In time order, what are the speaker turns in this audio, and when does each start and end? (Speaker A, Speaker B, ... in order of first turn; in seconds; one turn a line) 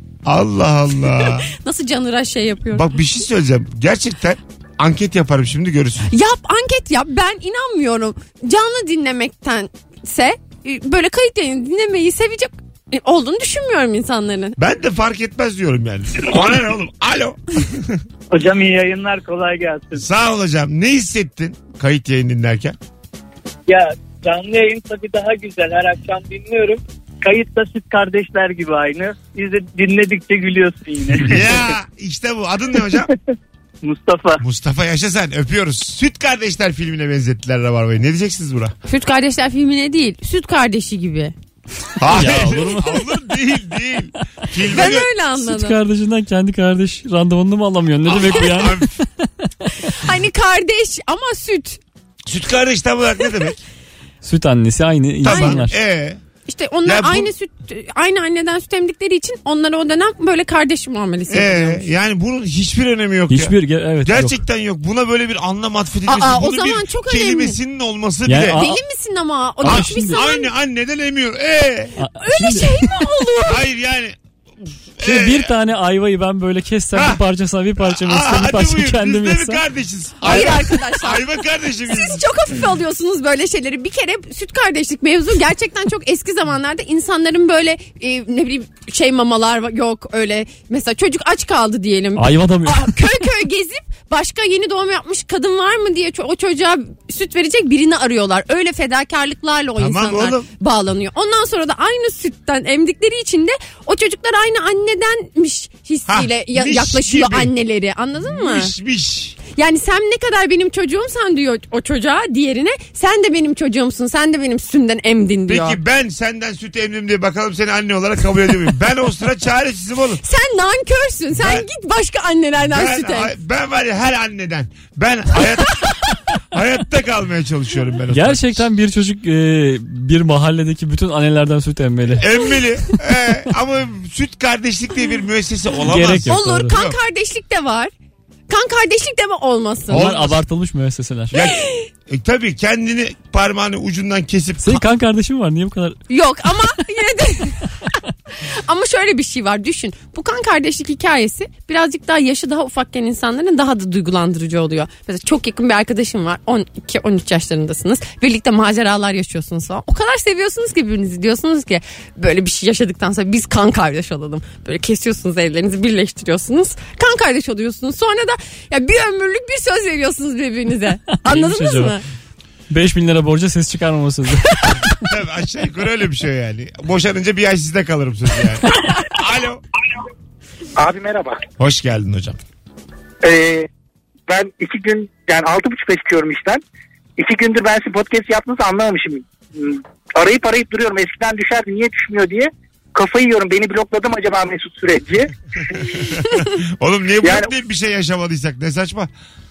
Speaker A: 0.2-1.5
Speaker B: 1.2-2.9
Speaker A: 2.7-6.1
Speaker B: 6.1-14.6
Speaker A: 14.6-18.0
Speaker C: 18.3-20.0
Speaker A: 19.9-22.8
Speaker C: 23.7-31.7
Speaker A: 31.3-33.1
Speaker C: 32.8-33.0
Speaker C: 33.8-34.4
Speaker A: 34.4-38.7
Speaker B: 38.9-41.3
Speaker A: 42.0-45.1
Speaker D: 42.1-43.1
Speaker B: 44.7-45.8
Speaker D: 45.4-49.3
Speaker A: 48.0-48.9
Speaker B: 49.7-51.8
Speaker A: 52.2-53.6
Speaker D: 54.2-55.7
Speaker A: 55.2-56.2
Speaker B: 55.3-55.6
Speaker B: 56.5-61.9
Speaker A: 56.8-57.3
Speaker A: 61.3-68.6
Speaker D: 63.3-64.4
Speaker B: 66.1-67.6
Speaker D: 68.2-68.8
Speaker B: 68.5-70.5
Speaker D: 69.6-70.2
Speaker A: 69.6-72.0
Speaker D: 72.0-73.1
Speaker B: 72.2-73.6
Speaker A: 73.5-74.2
Speaker A: 75.0-75.5
Speaker D: 75.0-79.6
Speaker A: 76.9-77.2
Speaker A: 77.8-82.2
Speaker B: 80.2-81.3
Speaker B: 81.9-108.7
Speaker D: 92.2-93.0
Speaker A: 99.8-100.5
Speaker A: 106.1-107.5
Speaker A: 108.2-109.4
Speaker B: 109.5-115.8
Speaker A: 115.5-120.2
Speaker B: 120.2-123.3
Speaker A: 121.3-121.7
Speaker A: 122.6-128.7
Speaker D: 128.1-132.3
Speaker A: 132.1-137.0
Speaker D: 135.8-136.7
Speaker B: 136.3-137.9
Speaker B: 138.5-140.1
Speaker A: 139.9-140.4
Speaker D: 139.9-141.3
Speaker A: 141.3-144.8
Speaker B: 141.4-141.8
Speaker D: 144.6-146.0
Speaker B: 146.1-147.7
Speaker B: 148.4-172.0
Speaker D: 171.2-172.0
Speaker D: 172.7-175.0
Speaker A: 175.0-179.6
Speaker E: 180.8-181.4
Speaker A: 181.6-182.4
Speaker E: 183.2-183.7
Speaker E: 184.3-186.6
Speaker E: 187.2-195.3
Speaker A: 195.7-199.1
Speaker E: 197.2-197.5